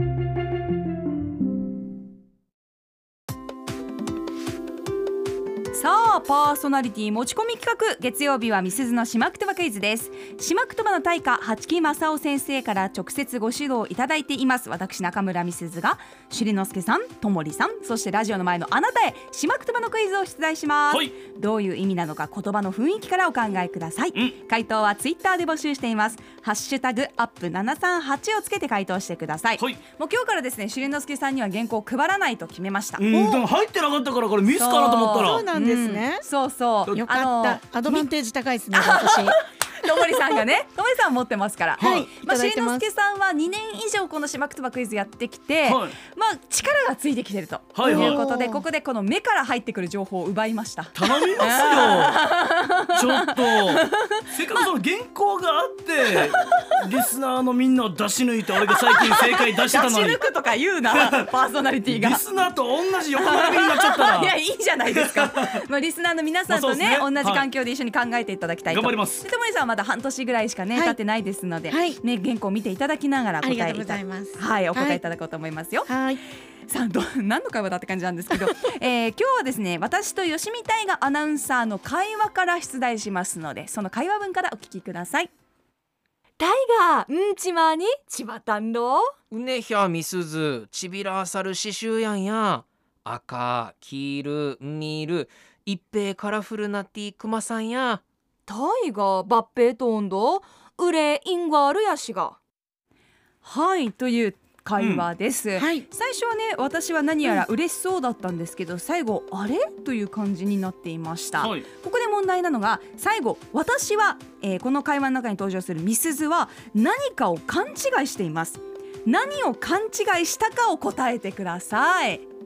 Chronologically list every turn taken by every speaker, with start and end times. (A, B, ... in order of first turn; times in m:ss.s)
0:05.7-0:33.0 A
0:20.9-0:21.1 B
0:33.0-0:35.5 B
0:33.1-0:33.4 C
0:34.5-0:38.1 A
0:35.2-0:36.2 C
0:36.9-0:39.4 C
0:38.7-0:54.6 A
0:41.8-0:42.0 B
0:41.8-0:42.8 C
0:45.6-0:46.0 B
0:47.7-0:48.2 B
0:47.8-0:48.6 C
0:50.9-0:52.2 B
0:52.9-1:00.2 B
0:56.3-0:56.7 A
0:58.7-1:02.2 A
1:00.9-1:01.3 B
1:01.9-1:04.3 B
1:03.2-1:15.9 A
1:04.8-1:05.6 B
1:06.5-1:07.5 B
1:08.7-1:09.2 B
1:11.7-1:12.0 C
1:13.4-1:15.0 C
1:15.9-1:16.2 C
1:16.7-1:25.3 A
1:26.4-1:29.0 D
1:27.8-1:29.0 A
1:29.3-1:38.0 E
1:38.5-1:42.4 D
1:38.8-1:40.4 A
1:41.2-1:42.1 A
1:43.4-2:02.2 A
1:44.8-1:45.1 B
1:45.6-1:45.8 C
1:51.4-1:51.7 B